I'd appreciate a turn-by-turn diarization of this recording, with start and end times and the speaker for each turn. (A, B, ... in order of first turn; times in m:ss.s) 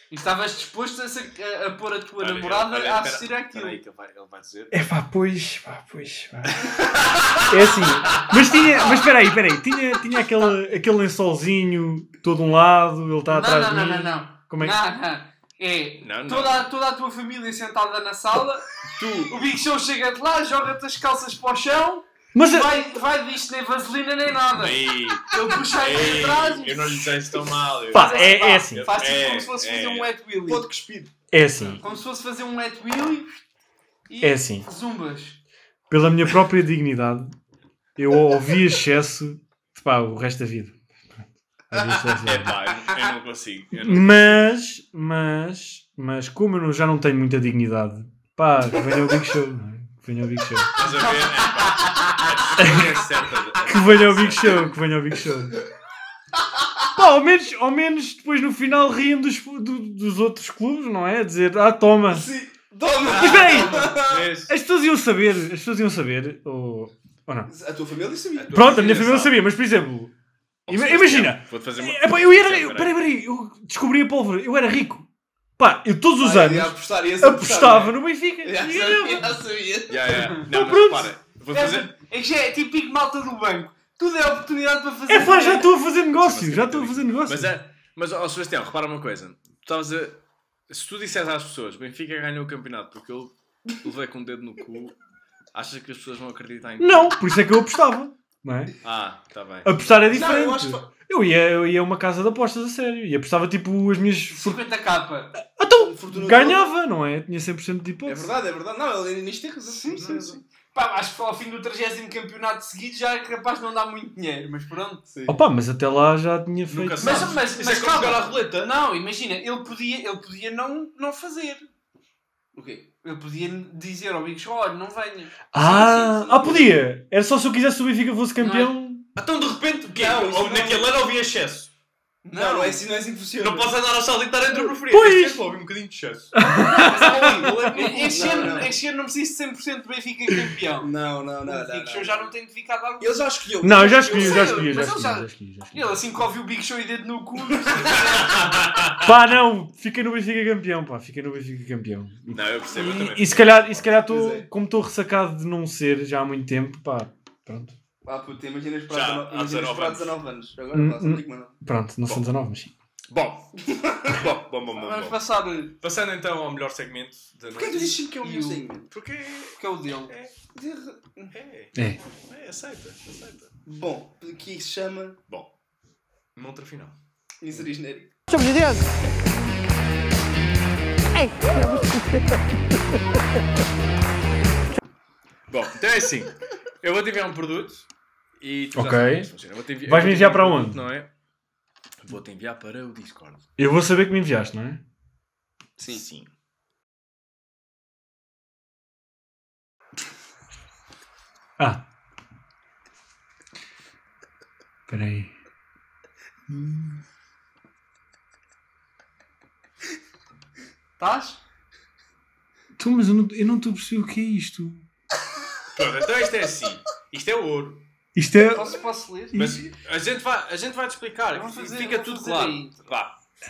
0:00.1-0:03.8 A
0:02.2-0:04.8 B
0:04.7-0:06.7 C
0:06.6-0:07.4 B
0:07.5-0:14.8 C
0:08.0-0:09.0 B
0:13.3-0:18.7 A
0:16.0-0:16.7 B
0:18.9-0:19.3 D
0:19.2-0:27.1 A
0:22.3-0:22.8 C
0:24.5-0:30.1 B
0:27.9-0:28.9 C
0:27.9-0:30.7 A
0:30.4-0:31.1 D
0:31.3-0:31.8 C
0:31.8-0:33.4 A
0:34.1-0:35.4 A
0:34.2-0:34.7 C
0:35.9-0:37.3 C
0:38.0-0:40.8 C
0:41.7-0:42.6 C
0:42.1-0:44.4 B
0:43.8-0:50.8 C
0:50.7-0:54.7 B
0:52.6-0:53.0 C
0:53.6-0:55.6 C
0:56.9-1:02.3 C
1:02.1-1:04.3 D
1:03.0-1:04.5 B
1:03.1-1:04.0 C
1:04.5-1:07.5 C
1:07.5-1:09.0 D
1:08.4-1:09.4 B
1:08.5-1:10.1 C
1:10.7-1:13.0 B
1:10.7-1:15.1 C
1:15.6-1:19.4 C
1:16.2-1:20.3 D
1:19.9-1:21.9 B
1:20.5-1:21.1 C
1:21.5-1:25.7 A
1:25.1-1:27.5 C
1:26.1-1:35.0 B
1:35.5-1:37.2 B
1:36.8-1:38.8 C
1:38.8-1:40.2 B
1:39.6-1:44.6 C
1:40.0-1:40.9 D
1:44.3-1:45.3 A
1:45.5-1:48.3 C
1:45.8-1:46.7 D
1:48.0-1:50.3 D
1:49.6-1:55.0 A
1:49.9-1:50.4 B
1:55.1-1:55.4 D
1:55.3-1:57.3 C
1:56.7-1:58.7 B
1:57.0-2:01.6 A
2:02.5-2:02.9 D
2:03.0-2:05.8 A
2:05.5-2:09.0 C
2:05.6-2:06.8 D
2:08.4-2:08.8 A
2:09.2-2:11.7 B
2:09.9-2:11.0 D
2:12.2-2:12.8 A
2:12.3-2:13.7 D
2:13.4-2:16.3 B
2:14.9-2:15.5 C
2:16.4-2:17.2 C
2:16.5-2:20.9 A
2:16.9-2:18.8 D
2:17.6-2:18.6 B
2:20.8-2:22.3 D
2:21.4-2:23.2 A
2:23.0-2:25.0 D
2:23.6-2:26.0 C
2:23.9-2:28.8 A
2:28.2-2:29.0 B
2:29.0-2:37.8 C
2:32.3-2:33.9 B
2:34.1-2:34.5 D
2:38.0-2:41.6 D
2:38.9-2:40.2 B
2:40.7-2:42.7 C
2:43.1-2:45.2 B
2:43.6-2:44.3 D
2:44.7-2:45.8 A
2:45.8-2:48.0 B
2:47.5-2:48.9 D
2:48.2-2:48.7 A
2:48.9-2:50.3 B
2:49.6-2:50.1 A
2:50.5-2:51.3 D
2:51.3-2:51.7 B
2:51.7-2:52.0 C
2:52.2-2:53.7 B
2:53.7-2:55.2 D
2:56.3-2:57.0 B
2:57.4-2:58.1 D
3:05.5-3:07.9 B
3:08.4-3:11.1 B
3:08.8-3:09.3 C
3:09.8-3:10.8 C
3:12.0-3:13.4 B
3:13.6-3:14.8 C
3:15.8-3:16.0 D
3:15.9-3:16.3 B
3:21.6-3:21.8 C
3:24.9-3:25.3 C
3:26.5-3:27.0 C
3:31.0-3:31.4 A
3:32.8-3:34.8 C
3:35.7-3:37.9 B
3:38.2-3:38.8 C
3:38.5-3:39.4 A
3:39.3-3:39.7 C
3:39.3-3:43.1 B
3:41.3-3:42.9 A